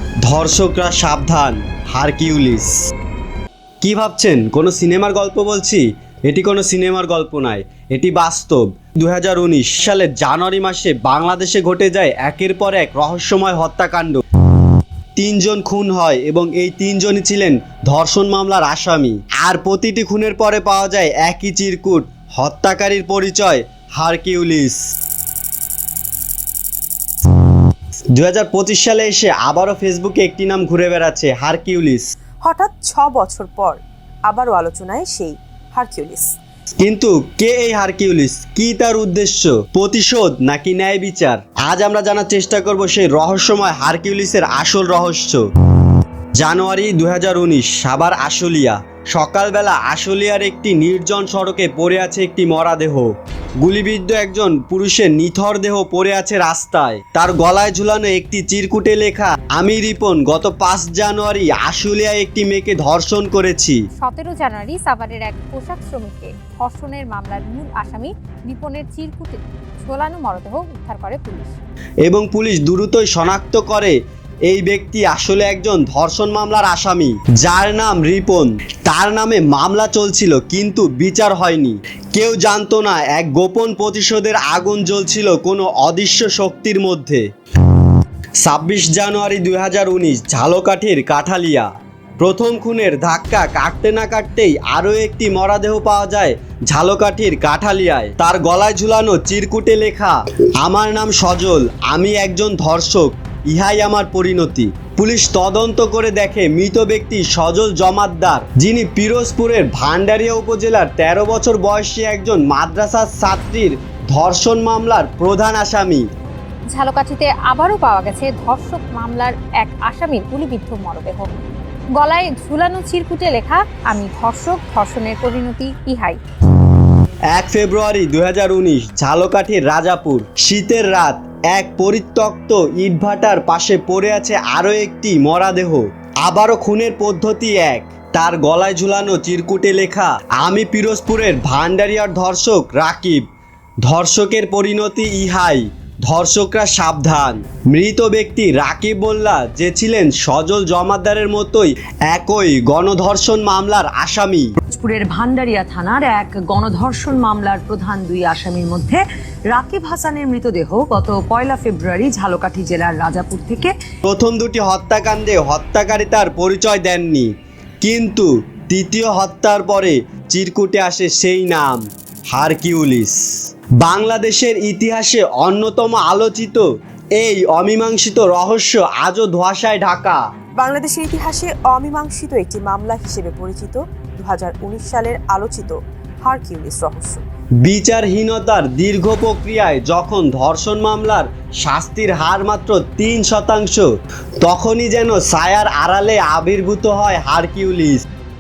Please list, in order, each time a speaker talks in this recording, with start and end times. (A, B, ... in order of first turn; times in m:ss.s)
0:00.2-0:02.7 A
0:03.8-0:14.2 A
0:15.2-0:24.8 A
0:28.1-0:32.1 A
0:32.4-0:36.3 B
0:36.8-0:45.4 A
0:46.4-0:53.1 A
0:53.6-1:03.8 A
1:04.0-1:11.6 C
1:12.0-1:27.2 A
1:28.4-1:31.7 A
1:32.2-1:56.1 A
1:56.7-2:01.3 C
2:02.0-2:06.2 C
2:07.3-2:23.3 A
2:23.8-2:34.5 A
2:34.7-2:43.8 D
2:44.0-2:47.3 A
2:47.8-2:53.2 A
2:53.8-3:00.2 A
3:00.6-3:07.2 B
3:07.6-3:13.9 A
3:14.4-3:18.0 A